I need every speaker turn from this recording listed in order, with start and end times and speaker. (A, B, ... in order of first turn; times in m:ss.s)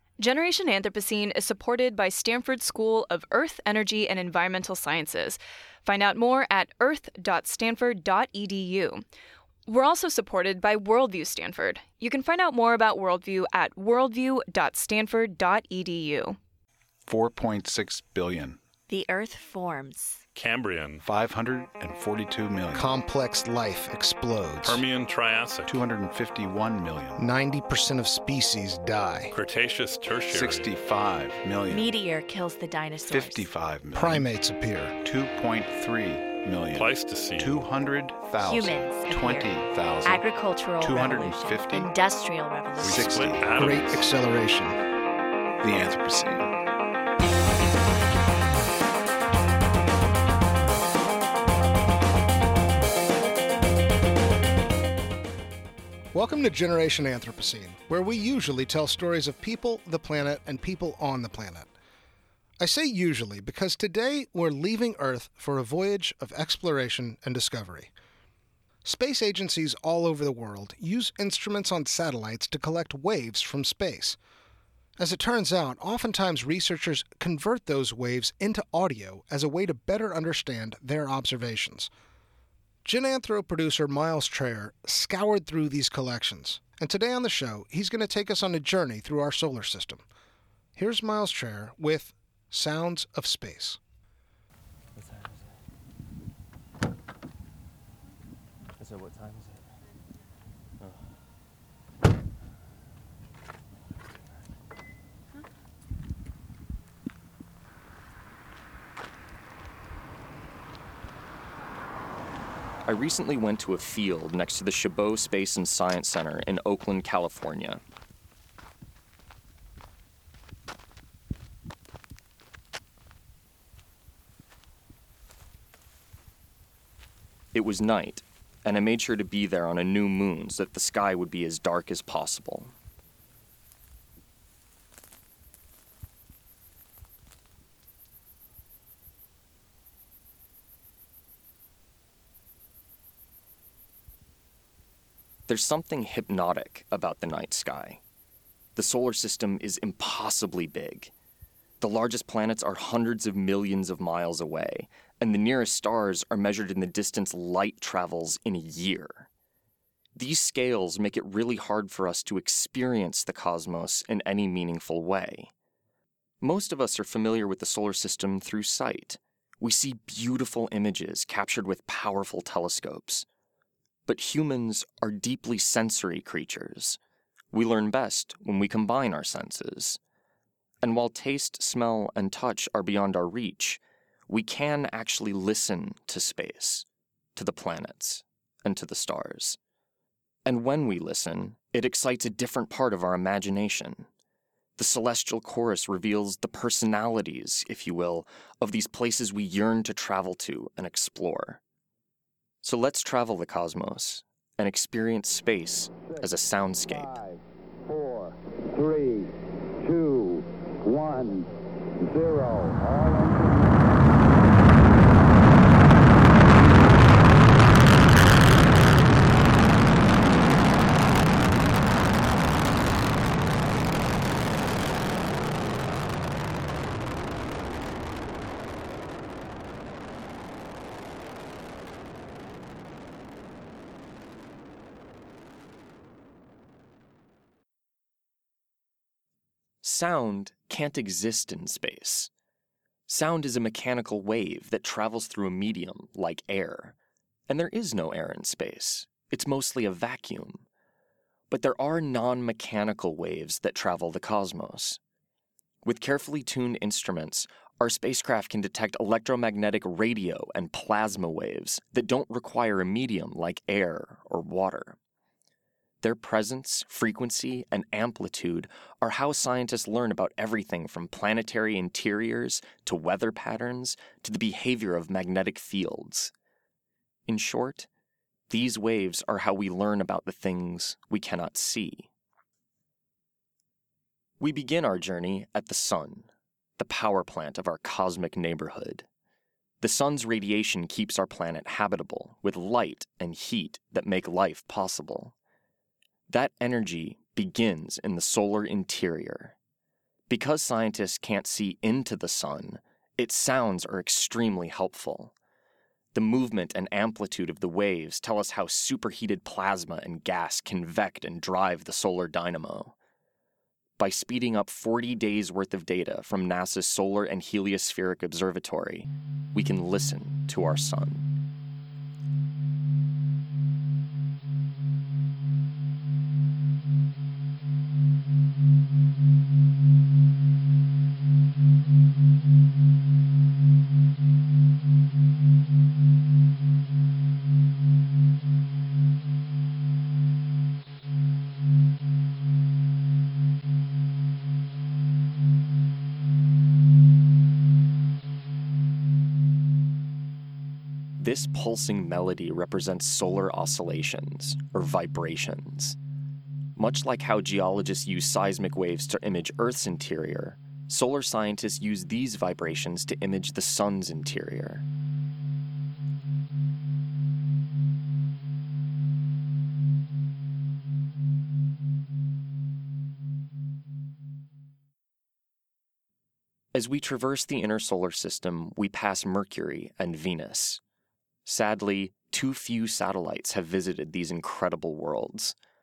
0:00.2-0:09.0 A
0:09.6-0:16.4 A
0:17.0-0:18.6 B
0:18.9-0:20.2 C
0:20.3-0:21.0 D
0:21.0-0:22.9 B
0:22.7-0:24.8 E
0:24.6-0:25.8 D
0:25.7-0:27.2 B
0:27.2-0:29.3 E
0:29.3-0:30.7 D
0:30.3-0:31.9 B
0:31.7-0:33.4 C
0:33.1-0:34.3 B
0:33.9-0:35.0 E
0:35.0-0:41.9 B
0:36.7-0:37.7 D
0:38.4-0:43.3 C
0:42.8-0:43.6 B
0:42.8-0:44.0 D
0:43.6-0:44.8 E
0:45.6-0:46.5 B
0:56.1-1:01.7 E
1:02.6-1:07.9 E
1:08.8-1:14.2 E
1:15.0-1:21.9 E
1:22.8-1:30.0 E
1:30.8-1:33.8 E
1:52.8-1:57.8 F
2:07.5-2:12.7 F
2:25.5-2:28.0 F
2:28.8-2:31.1 F
2:31.8-2:39.3 F
2:40.1-2:45.5 F
2:46.4-2:53.2 F
2:54.1-2:57.0 F
2:57.5-3:00.0 F
3:00.8-3:09.6 F
3:10.4-3:14.1 F
3:14.8-3:21.6 F
3:22.6-3:27.2 F
3:26.0-3:31.5 G
3:32.0-3:34.1 G
3:59.8-4:02.3 F
4:03.1-4:07.0 F
4:07.5-4:10.7 F
4:11.5-4:15.0 F
4:15.8-4:25.0 F
4:26.0-4:36.3 F
4:37.3-4:37.9 F
4:38.5-4:42.1 F
4:44.4-4:49.0 F
4:49.8-4:55.3 F
4:56.3-4:59.6 F
5:00.3-5:05.3 F
5:06.1-5:12.9 F
5:14.0-5:21.3 F
5:51.2-5:56.0 F
5:56.8-6:04.8 F
6:16.7-6:20.8 F
6:21.4-6:25.6 F